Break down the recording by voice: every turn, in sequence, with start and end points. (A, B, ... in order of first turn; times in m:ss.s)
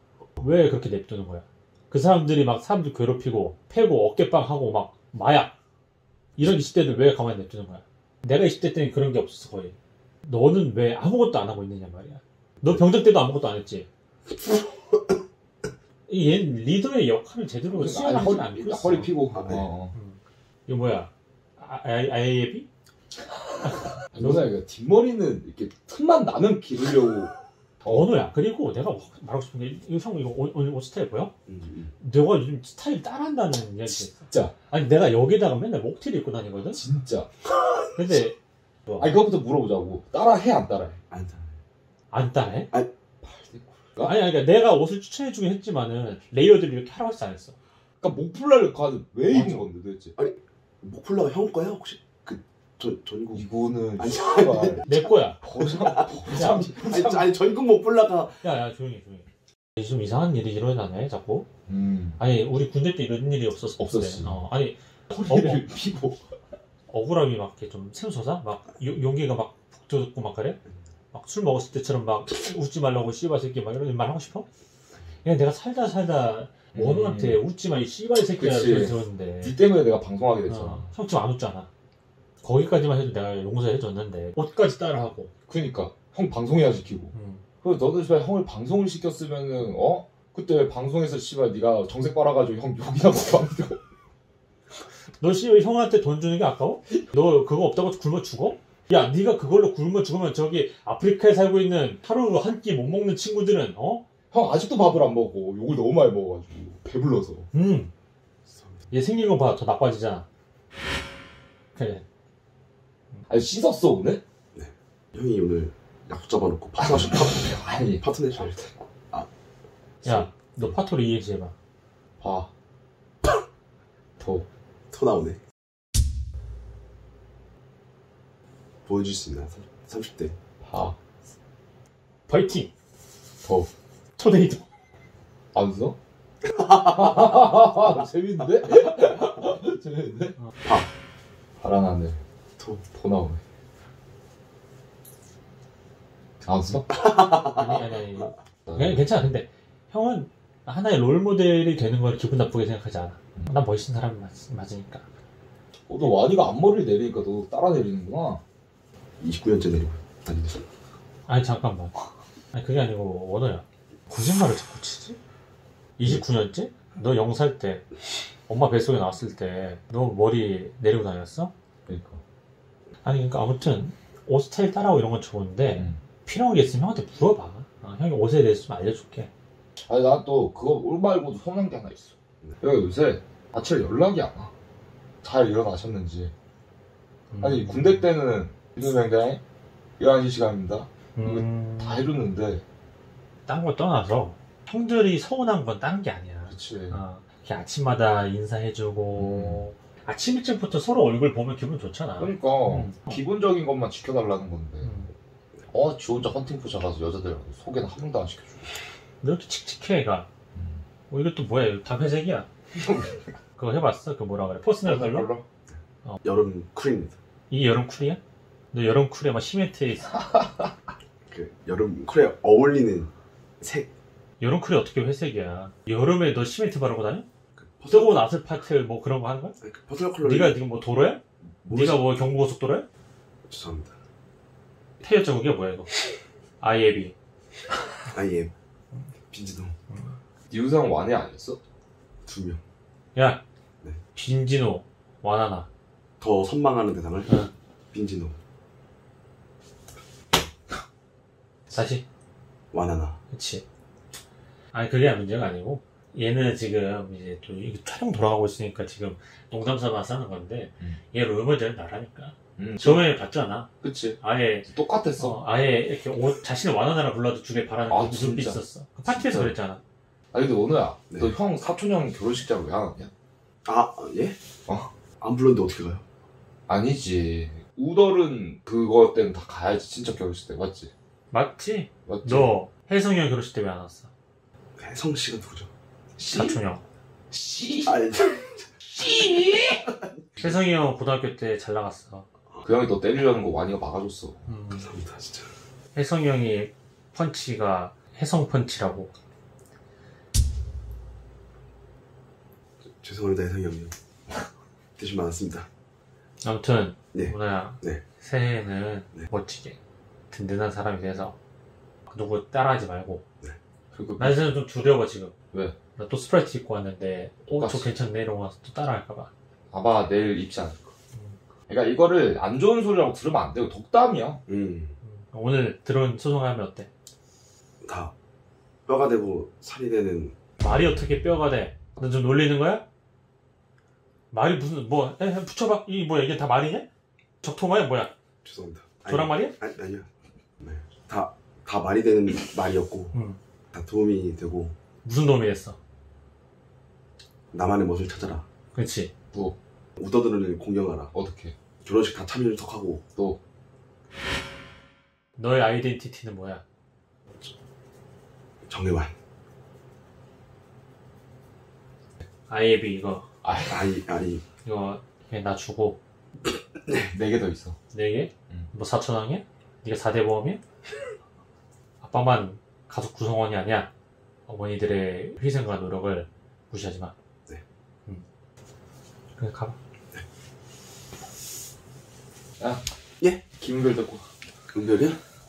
0:00.4-0:05.5 A
0:06.4-0:13.9 A
0:16.1-0:19.1 A
0:17.7-0:19.9 B
0:19.3-0:19.7 C
0:19.9-0:22.7 A
0:23.6-0:24.4 A
0:23.6-0:28.2 B
0:27.9-0:31.3 A
0:31.5-0:31.9 C
0:32.0-0:36.8 A
0:33.8-0:34.5 B
0:36.7-0:37.3 B
0:37.9-0:39.2 A
0:39.0-0:41.0 B
0:41.1-0:41.5 C
0:42.1-0:42.7 A
0:43.2-0:44.2 B
0:44.0-0:47.6 A
0:48.0-0:50.1 B
0:49.3-0:58.4 C
0:53.3-0:54.9 B
0:54.8-0:55.4 A
0:55.4-0:57.4 B
0:56.3-0:56.7 A
0:58.4-1:01.5 A
1:01.7-1:02.2 B
1:02.2-1:05.7 A
1:03.8-1:04.4 B
1:05.1-1:06.2 B
1:06.9-1:10.6 A
1:11.1-1:14.5 A
1:15.2-1:19.6 A
1:16.7-1:17.4 B
1:18.4-1:20.9 B
1:20.5-1:21.7 A
1:22.4-1:25.3 A
1:25.5-1:33.8 B
1:27.1-1:27.4 A
1:35.2-1:44.0 A
1:44.3-1:47.5 B
1:47.5-1:47.9 A
1:48.5-1:48.8 C
1:48.9-1:50.2 A
1:51.7-1:52.0 A
1:53.3-1:54.2 B
1:54.5-1:58.6 C
1:56.8-1:58.8 B
2:00.0-2:00.7 B
2:00.0-2:01.5 A
2:02.2-2:02.5 B
2:04.2-2:04.4 B
2:04.9-2:05.4 C
2:08.8-2:10.4 C
2:10.6-2:10.9 B
2:12.3-2:12.7 A
2:13.4-2:13.7 B
2:14.2-2:14.6 A
2:15.5-2:16.0 B
2:16.6-2:20.4 B
2:21.6-2:22.2 B
2:22.6-2:22.8 C
2:22.9-2:23.4 B
2:26.4-2:26.9 B
2:26.9-2:28.0 C
2:27.5-2:35.0 A
2:28.6-2:29.1 B
2:35.9-2:38.4 B
2:39.2-2:40.6 C
2:41.3-2:42.0 A
2:42.5-2:45.2 A
2:46.0-2:47.8 A
2:48.5-2:51.5 A
2:51.9-2:52.2 B
2:53.0-2:59.3 A
2:59.8-3:04.5 B
3:05.2-3:06.3 B
3:07.3-3:08.0 A
3:07.4-3:09.4 B
3:10.0-3:12.6 B
3:11.2-3:12.0 A
3:13.5-3:23.2 A
3:16.5-3:17.0 B
3:19.2-3:19.6 B
3:22.2-3:24.9 B
3:24.8-3:25.1 A
3:25.7-3:28.7 B
3:29.2-3:30.3 A
3:30.5-3:30.8 B
3:31.1-3:32.5 A
3:32.8-3:33.2 B
3:33.6-3:35.3 A
3:34.8-3:35.4 B
3:36.2-3:37.1 C
3:37.5-3:38.2 A
3:38.7-3:40.2 A
3:40.3-3:40.6 B
3:41.3-3:43.9 C
3:44.4-3:47.2 A
3:47.6-3:48.2 C
3:47.9-3:49.6 A
3:49.6-3:50.6 C
3:50.2-3:52.9 A
3:51.6-3:52.1 C
3:53.5-3:53.9 C
3:55.0-3:55.9 A
3:56.6-3:57.1 A
3:58.1-3:58.5 C
3:59.3-3:59.8 C
4:00.5-4:01.6 B
4:02.2-4:02.6 C
4:03.1-4:03.4 A
4:04.1-4:05.7 A
4:06.2-4:08.3 C
4:11.7-4:12.0 A
4:12.7-4:13.2 C
4:13.3-4:13.6 A
4:14.7-4:29.8 A
4:22.6-4:23.1 B
4:23.8-4:25.4 B
4:27.9-4:29.5 B
4:30.3-4:33.1 B
4:31.1-4:31.4 C
4:33.6-4:34.4 C
4:35.2-4:36.0 C
4:36.7-4:40.9 B
4:41.3-4:44.1 A
4:42.0-4:42.5 B
4:44.8-4:45.7 C
4:46.2-4:46.6 B
4:46.3-4:46.8 A
4:47.3-4:48.3 B
4:47.8-4:48.6 C
4:48.8-4:49.8 B
4:49.6-4:50.4 C
4:50.4-4:52.3 A
4:52.6-4:54.4 B
4:54.5-4:54.9 A
4:54.7-4:55.5 C
4:55.9-4:59.1 A
5:03.0-5:03.9 C
5:05.0-5:05.7 C
5:06.4-5:09.8 A
5:07.1-5:08.0 C
5:10.3-5:11.4 A
5:12.1-5:13.2 A
5:13.9-5:14.4 B
5:14.2-5:15.3 A
5:16.0-5:19.3 A
5:17.6-5:17.9 B
5:19.7-5:20.9 B
5:21.7-5:24.4 B
5:24.5-5:24.9 C
5:25.0-5:26.9 A
5:27.8-5:28.1 C
5:28.8-5:30.4 C
5:30.6-5:32.8 A
5:34.3-5:36.9 A
5:37.4-5:38.1 A
5:38.4-5:40.1 C
5:39.0-5:39.6 A
5:40.6-5:43.1 C
5:43.1-5:43.4 A
5:43.7-5:44.7 C
5:45.0-5:45.8 A
5:47.5-5:48.4 C
5:48.7-5:49.1 A
5:50.0-5:51.1 C
5:51.1-5:51.6 B
5:51.8-5:53.0 C
5:55.4-5:56.6 A
5:58.7-5:59.1 C
6:02.5-6:03.2 A
6:03.4-6:04.0 B
6:03.7-6:04.4 C
6:04.6-6:06.0 A
6:06.9-6:07.8 B
6:07.9-6:10.6 A
6:12.0-6:13.9 A
6:14.5-6:17.1 A
6:19.4-6:19.8 A
6:23.6-6:24.2 B
6:24.7-6:25.2 C